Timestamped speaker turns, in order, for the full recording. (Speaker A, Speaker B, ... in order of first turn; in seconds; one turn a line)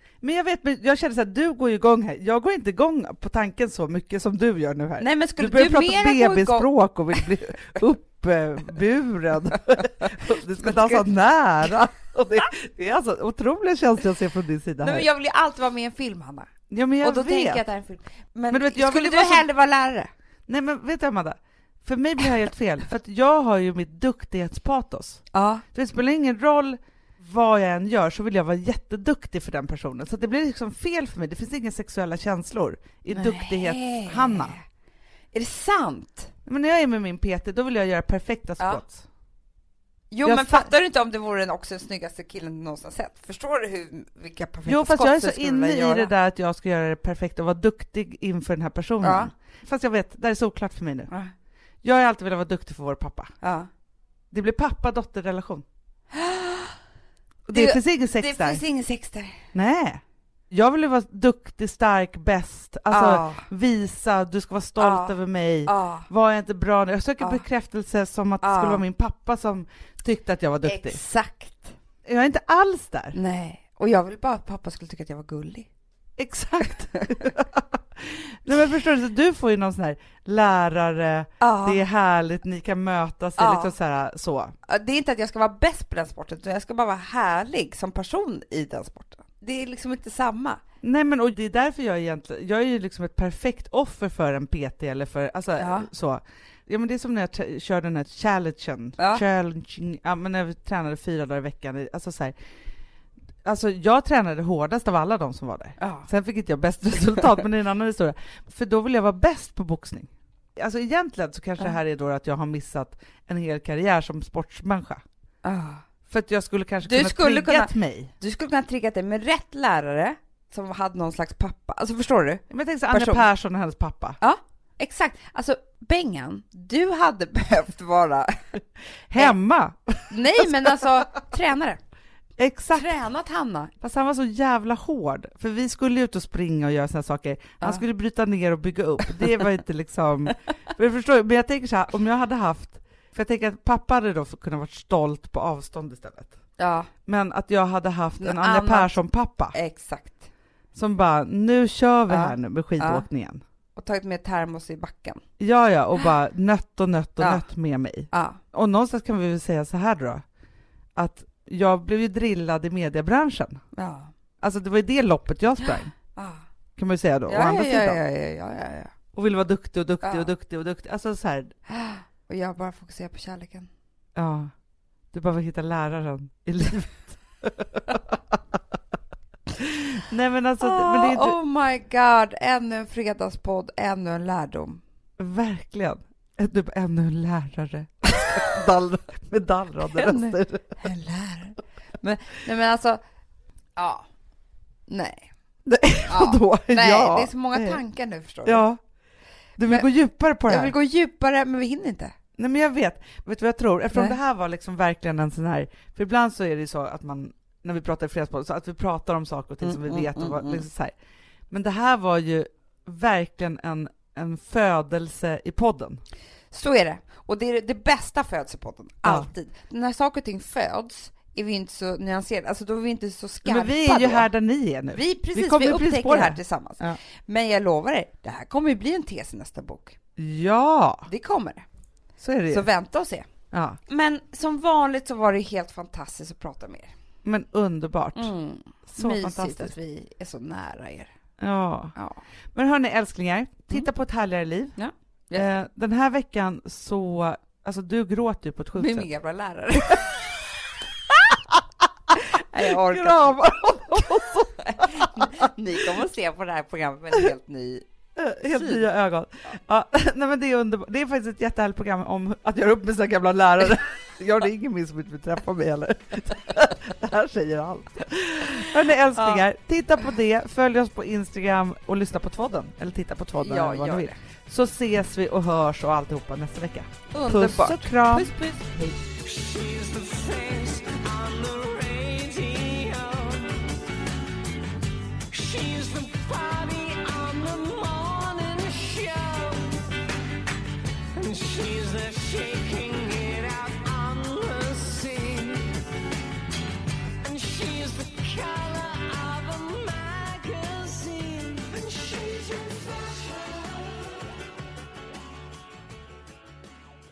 Speaker A: 0.2-15.1
Speaker B: 5.0-7.3
Speaker B: 10.0-11.1
Speaker B: 14.8-20.1
Speaker A: 16.7-17.6
Speaker A: 18.5-19.5
Speaker A: 20.5-34.6
Speaker B: 25.3-25.6
Speaker B: 33.1-34.6
Speaker B: 35.3-36.3
Speaker A: 36.5-39.0
Speaker B: 40.1-46.1
Speaker A: 40.2-40.7
Speaker A: 44.7-51.1
Speaker B: 49.0-49.3
Speaker A: 51.8-53.3
Speaker B: 53.4-53.7
Speaker A: 54.3-55.6
Speaker B: 56.1-56.8
Speaker A: 57.5-58.6
Speaker B: 57.5-59.5
Speaker A: 59.5-71.0
Speaker B: 62.9-63.5
Speaker B: 64.8-65.2
Speaker B: 65.7-66.1
Speaker B: 68.4-68.8
Speaker B: 70.6-71.8
Speaker A: 72.0-73.2
Speaker B: 73.1-75.7
Speaker A: 76.2-84.5
Speaker B: 81.4-81.8
Speaker B: 83.4-83.8
Speaker B: 84.7-90.6
Speaker A: 90.8-102.3
Speaker B: 95.6-95.9
Speaker B: 99.0-99.2
Speaker A: 103.5-115.0
Speaker B: 105.8-106.1
Speaker B: 115.4-115.8
Speaker A: 116.1-118.1
Speaker B: 116.8-123.2
Speaker A: 122.5-124.2
Speaker B: 124.2-128.5
Speaker A: 129.1-130.8
Speaker B: 130.1-131.8
Speaker A: 132.4-132.9
Speaker B: 132.8-133.7
Speaker A: 133.8-146.4
Speaker B: 146.6-146.9
Speaker A: 147.1-149.6
Speaker B: 148.2-149.0
Speaker B: 149.5-150.3
Speaker A: 150.7-153.4
Speaker B: 152.1-153.1
Speaker B: 153.8-155.2
Speaker A: 155.4-160.2
Speaker B: 157.2-157.5
Speaker B: 158.1-158.4
Speaker A: 161.0-163.6
Speaker B: 163.7-164.1
Speaker A: 164.4-165.9
Speaker B: 166.1-166.4
Speaker A: 166.8-168.0
Speaker B: 167.3-168.9
Speaker A: 169.1-171.5
Speaker B: 170.0-170.3
Speaker B: 171.7-173.7
Speaker A: 174.2-174.5
Speaker A: 175.1-178.2
Speaker A: 179.6-181.4
Speaker B: 180.6-184.8
Speaker A: 185.2-190.8
Speaker B: 189.8-193.0
Speaker B: 193.8-194.1
Speaker B: 194.9-195.3
Speaker A: 195.7-197.8
Speaker B: 196.1-198.7
Speaker A: 198.4-198.8
Speaker A: 199.6-200.7
Speaker B: 200.5-202.2
Speaker A: 202.4-210.9
Speaker B: 203.9-204.2
Speaker B: 209.6-210.7
Speaker A: 211.5-216.0
Speaker B: 216.5-224.3
Speaker A: 223.4-227.0
Speaker B: 224.9-230.0
Speaker A: 230.2-231.1
Speaker B: 231.1-231.7
Speaker A: 232.2-232.7
Speaker B: 232.5-233.3
Speaker A: 233.5-233.8
Speaker B: 233.9-236.9
Speaker A: 237.2-238.3
Speaker B: 238.2-241.1
Speaker A: 238.9-239.7
Speaker A: 241.4-242.0
Speaker B: 242.0-242.2
Speaker A: 242.5-244.8
Speaker B: 244.8-245.5
Speaker A: 245.3-249.1
Speaker B: 248.8-250.4
Speaker B: 251.1-251.4
Speaker B: 252.1-257.9
Speaker A: 252.6-255.5
Speaker A: 258.2-278.3
Speaker B: 258.5-258.9
Speaker B: 269.2-269.4
Speaker B: 273.4-274.2
Speaker B: 277.1-279.0
Speaker C: 279.1-283.8
Speaker C: 285.3-289.9
Speaker C: 291.1-295.8
Speaker C: 297.2-304.1